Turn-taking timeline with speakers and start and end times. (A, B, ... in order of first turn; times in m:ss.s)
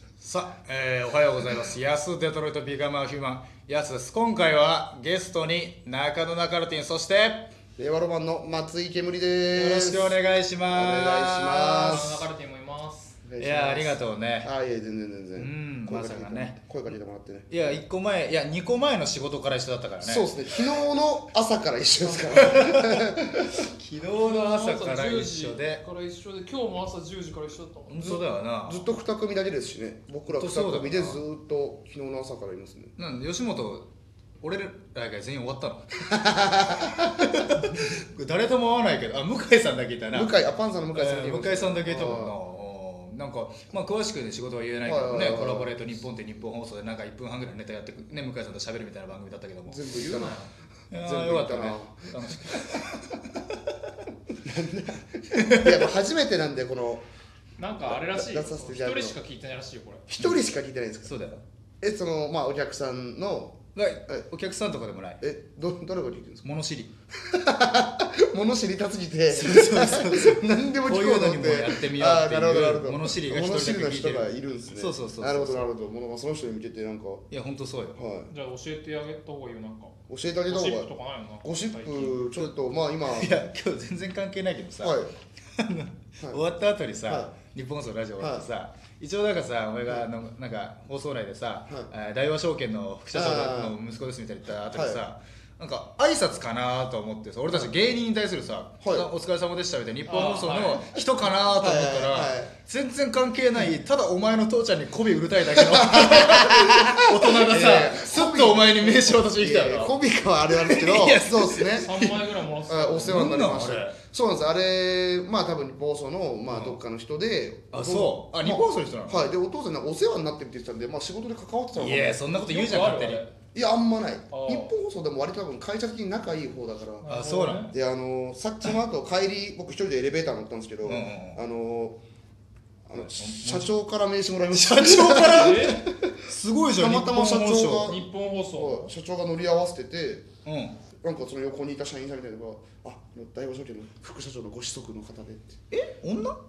0:00.2-0:07.5 A
0:07.8-0:12.2 B
0:09.5-0:12.2 A
0:11.8-0:13.2 C
0:13.2-0:17.6 B
0:13.4-0:14.5 A
0:15.4-0:16.7 A
0:17.5-0:20.4 A
0:20.0-0:23.6 B
0:22.1-0:25.8 A
0:24.2-0:28.2 C
0:27.9-0:28.8 A
0:28.0-0:32.9 B
0:30.3-0:31.2 A
0:33.0-0:33.9 A
0:34.4-0:36.2 A
0:36.1-0:37.1 B
0:37.0-0:40.3 A
0:40.1-0:42.4 B
0:40.9-0:49.9 A
0:44.8-0:45.8 B
0:49.7-0:50.4 B
0:50.0-0:50.5 C
0:50.9-0:53.2 A
0:50.9-0:52.2 B
0:54.4-0:57.0 B
0:55.4-0:55.9 A
0:57.6-1:00.0 C
0:57.8-0:59.2 B
1:00.1-1:01.1 B
1:01.0-1:01.4 A
1:01.8-1:04.2 B
1:03.7-1:05.2 A
1:05.2-1:06.4 B
1:06.4-1:06.9 A
1:07.2-1:17.3 B
1:09.3-1:15.7 A
1:17.3-1:18.0 A
1:18.0-1:18.3 B
1:18.3-1:20.0 C
1:20.1-1:20.9 B
1:20.5-1:22.2 C
1:21.4-1:23.4 B
1:23.0-1:25.0 A
1:24.8-1:25.1 B
1:25.6-1:50.0 A
1:27.0-1:27.3 B
1:28.2-1:28.4 B
1:33.1-1:33.8 B
1:34.6-1:35.0 B
1:38.8-1:39.1 B
1:40.0-1:40.8 C
1:41.6-1:42.5 B
1:45.5-1:52.0 B
1:50.5-1:52.2 A
1:51.7-1:53.2 C
1:52.7-2:02.3 B
1:53.0-1:54.0 A
1:56.5-1:56.8 A
1:57.7-1:59.3 A
2:01.7-2:03.2 A
2:02.4-2:03.3 C
2:03.5-2:07.1 B
2:04.3-2:04.7 C
2:07.0-2:07.7 C
2:07.1-2:07.7 A
2:07.7-2:12.0 B
2:10.8-2:11.4 A
2:12.9-2:16.1 B
2:13.0-2:13.7 A
2:14.5-2:18.0 A
2:15.3-2:15.8 C
2:16.7-2:20.3 B
2:17.7-2:18.9 C
2:20.4-2:20.8 A
2:21.0-2:25.6 B
2:25.7-2:26.4 A